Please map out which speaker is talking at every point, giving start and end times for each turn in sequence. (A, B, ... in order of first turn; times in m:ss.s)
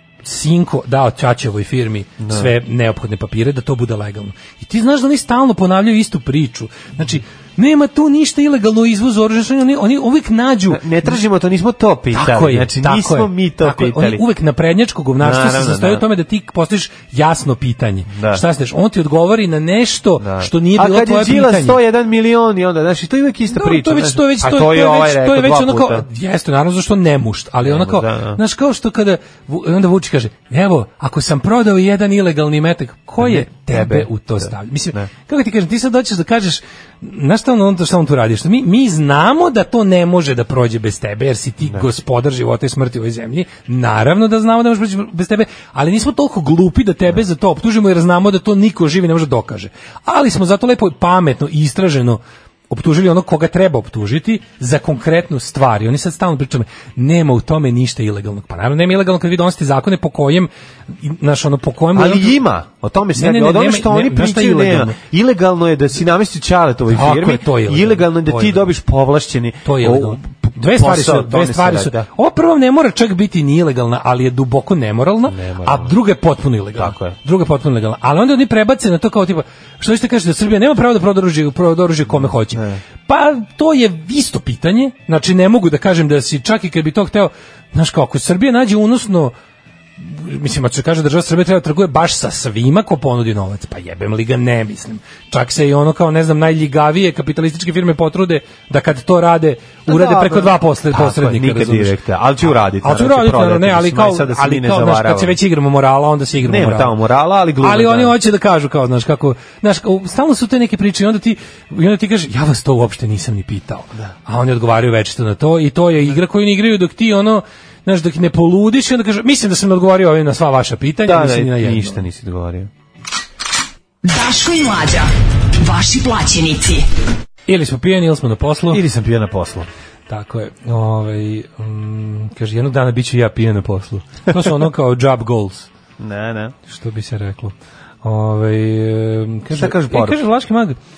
0:00.2-0:11.2 A
0:02.2-0:02.5 B
0:10.7-0:14.2 B
0:12.1-0:21.8 A
0:15.2-0:16.0 B
0:18.1-0:18.4 B
0:20.2-0:26.0 B
0:23.5-1:02.4 A
0:27.6-0:28.4 B
0:33.2-0:35.1 B
1:01.9-1:12.1 B
1:03.2-1:05.0 A
1:06.9-1:08.7 A
1:09.6-1:29.3 A
1:15.3-1:15.9 B
1:16.8-1:17.2 B
1:22.1-1:22.8 B
1:30.0-1:41.9 A
1:39.8-1:45.4 B
1:42.8-1:47.0 A
1:46.4-1:48.1 B
1:47.6-2:02.0 A
2:01.0-2:02.7 B
2:04.0-2:06.9 C
2:07.5-2:08.8 A
2:08.7-2:09.7 B
2:10.1-2:15.7 A
2:16.0-2:16.5 B
2:16.7-2:20.8 A
2:19.5-2:20.2 B